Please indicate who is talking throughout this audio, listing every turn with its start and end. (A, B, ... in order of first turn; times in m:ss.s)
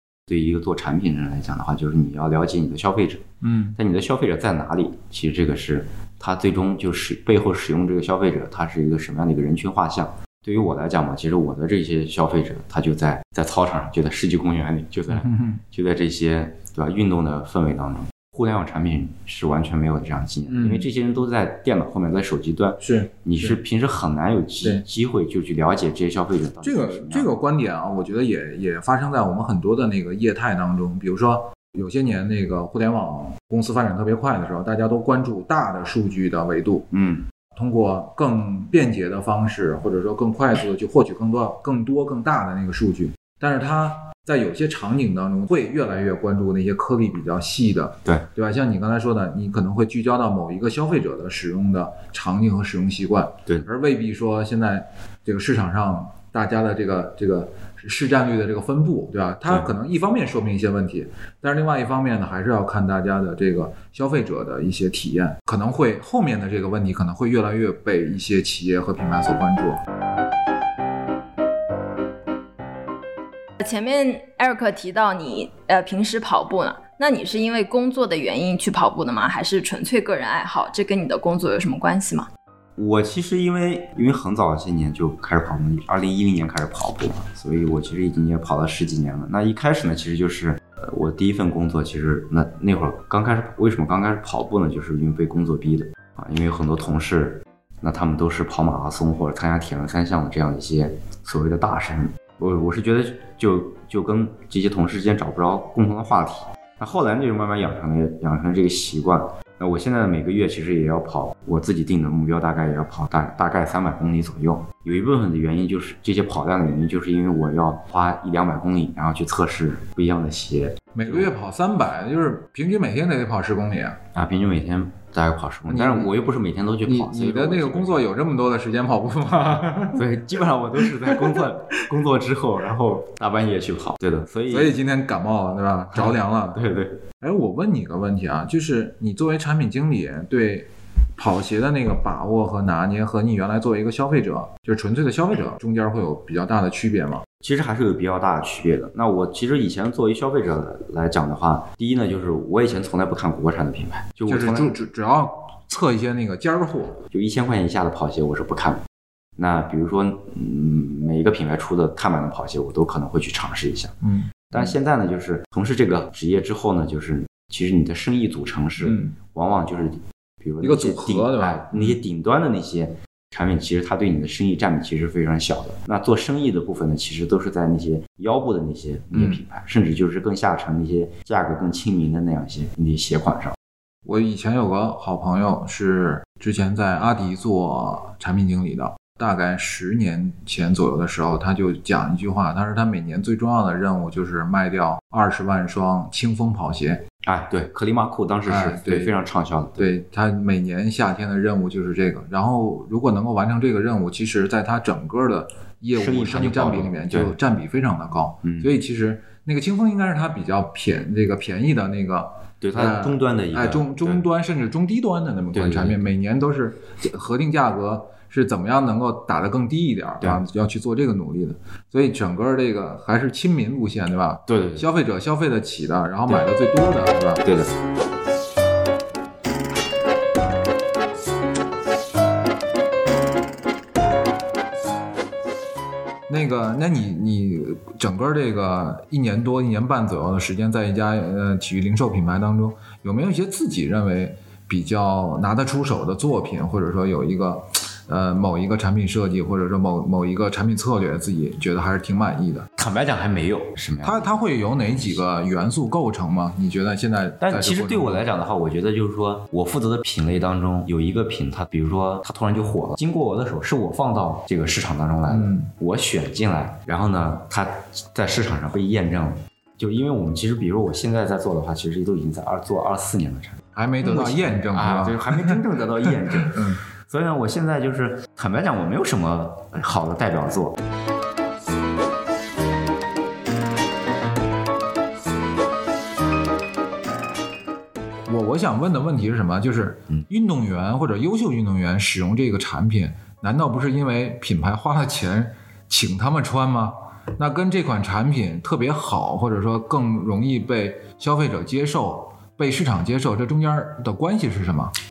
0:00.3-0:27.3 A
0:03.4-0:03.8 B
0:15.1-0:15.6 B
0:20.5-0:20.9 B
0:22.8-0:23.6 B
0:26.6-0:36.9 B
0:36.9-0:37.2 A
0:37.6-1:09.8 B
1:13.6-1:22.3 C
1:22.8-2:01.3 A
2:01.0-2:04.0 B
2:04.1-2:08.1 A
2:05.7-2:06.1 B
2:06.8-2:10.1 B
2:09.9-2:14.8 A
2:10.8-2:11.5 B
2:14.5-2:16.6 B
2:16.0-2:17.0 A
2:17.2-2:27.3 B
2:27.4-2:34.7 A
2:34.3-2:37.0 B
2:37.1-2:38.8 A
2:39.4-2:44.0 A
2:44.0-2:44.7 B
2:44.5-3:03.6 A
2:48.8-2:49.2 B
2:50.6-2:52.0 B
2:59.1-2:59.4 B
3:04.0-3:17.0 B
3:17.2-3:19.9 A
3:18.5-3:19.1 B
3:19.8-3:47.4 B
3:25.9-3:27.4 A
3:28.4-3:28.7 A
3:32.6-3:34.2 A
3:35.5-3:36.1 A
3:44.5-3:44.9 A
3:47.4-3:47.7 A
3:56.3-4:12.7 B
4:12.8-4:15.2 A
4:14.0-4:18.2 B
4:17.4-4:40.8 A
4:25.3-4:25.7 B
4:33.8-4:36.8 B
4:48.3-5:04.9 B